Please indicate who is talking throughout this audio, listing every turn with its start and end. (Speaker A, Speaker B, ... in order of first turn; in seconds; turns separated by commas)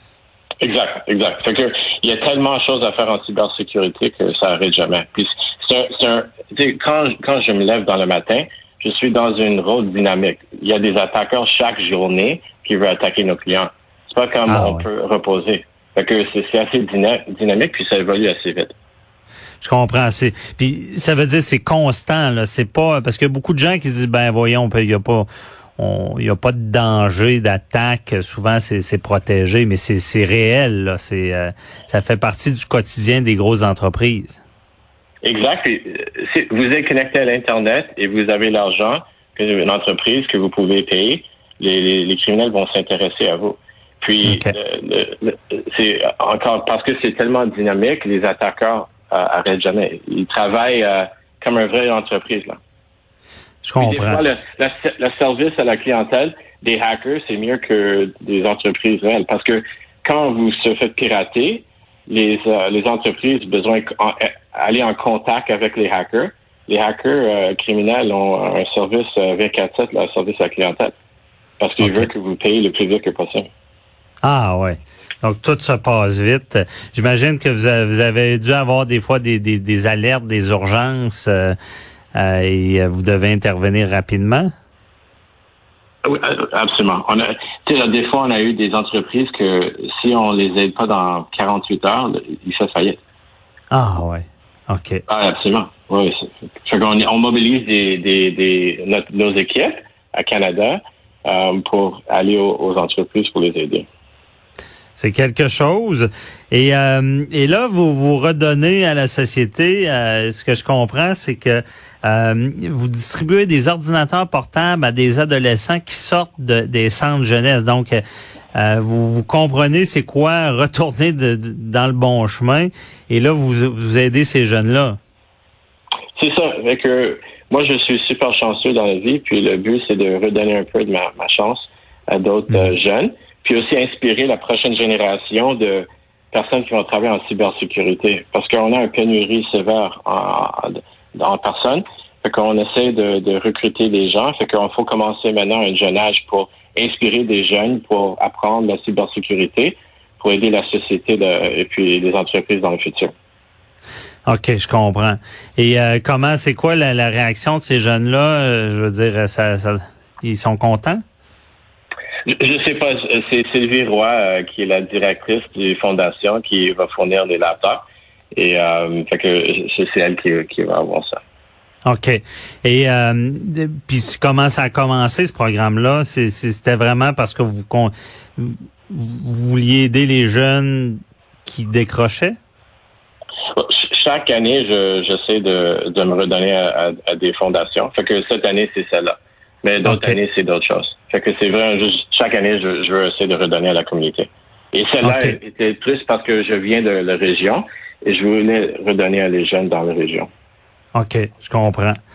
Speaker A: 0.6-18.7, Speaker B: 14.5-14.8, Speaker B: 19.6-34.4, Speaker A: 35.2-52.6, Speaker B: 44.2-44.5, Speaker B: 53.6-54.2, Speaker A: 53.8-70.9, Speaker A: 71.6-73.5, Speaker B: 71.8-72.1, Speaker B: 74.2-81.5, Speaker B: 82.1-84.5, Speaker A: 86.0-93.0, Speaker B: 93.7-95.0, Speaker A: 95.1-103.9, Speaker B: 105.0-118.0, Speaker B: 118.5-125.0, Speaker A: 126.2-153.1, Speaker B: 154.2-161.0, Speaker A: 162.2-167.8, Speaker A: 168.3-171.2, Speaker B: 171.9-182.4, Speaker A: 183.5-200.3, Speaker B: 189.8-190.2, Speaker B: 195.0-195.4, Speaker B: 200.9-202.0